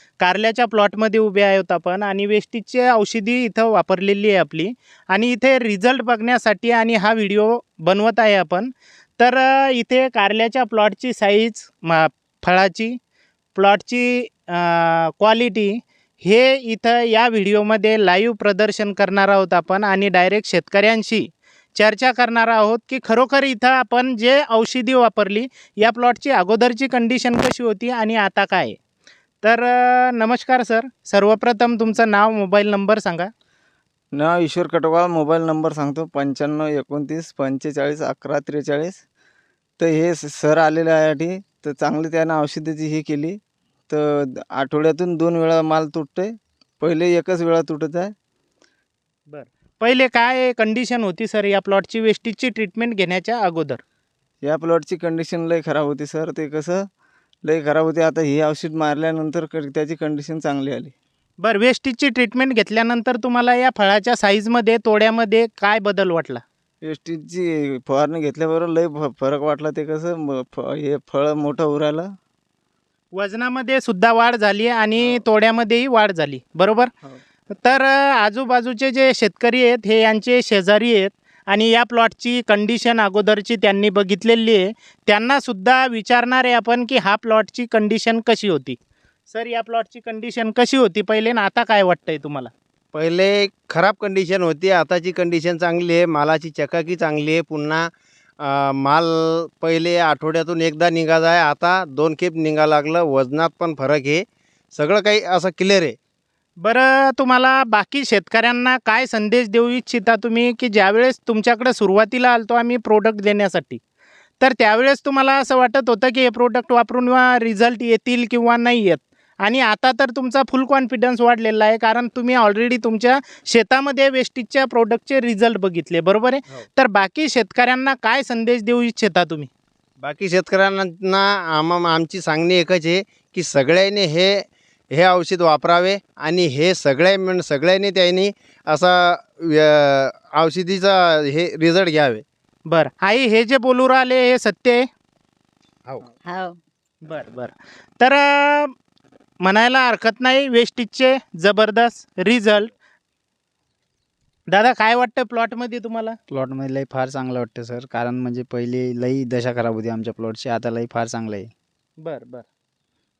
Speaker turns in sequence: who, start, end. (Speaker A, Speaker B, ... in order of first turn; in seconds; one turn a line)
Speaker A: 0.2-13.0
Speaker A: 13.6-28.8
Speaker A: 29.4-33.3
Speaker B: 34.1-39.0
Speaker B: 39.8-48.1
Speaker A: 49.3-53.8
Speaker B: 54.4-56.9
Speaker B: 57.5-60.9
Speaker A: 61.4-66.4
Speaker B: 66.8-72.1
Speaker A: 73.2-76.9
Speaker A: 77.5-88.8
Speaker A: 89.3-92.5
Speaker C: 92.9-97.9
Speaker C: 98.4-106.0
Speaker A: 106.6-113.8
Speaker A: 114.4-129.5
Speaker C: 130.0-142.2
Speaker A: 142.7-144.9
Speaker A: 147.0-148.7
Speaker A: 149.4-152.7
Speaker A: 154.5-156.2
Speaker D: 156.3-161.5
Speaker A: 162.0-162.5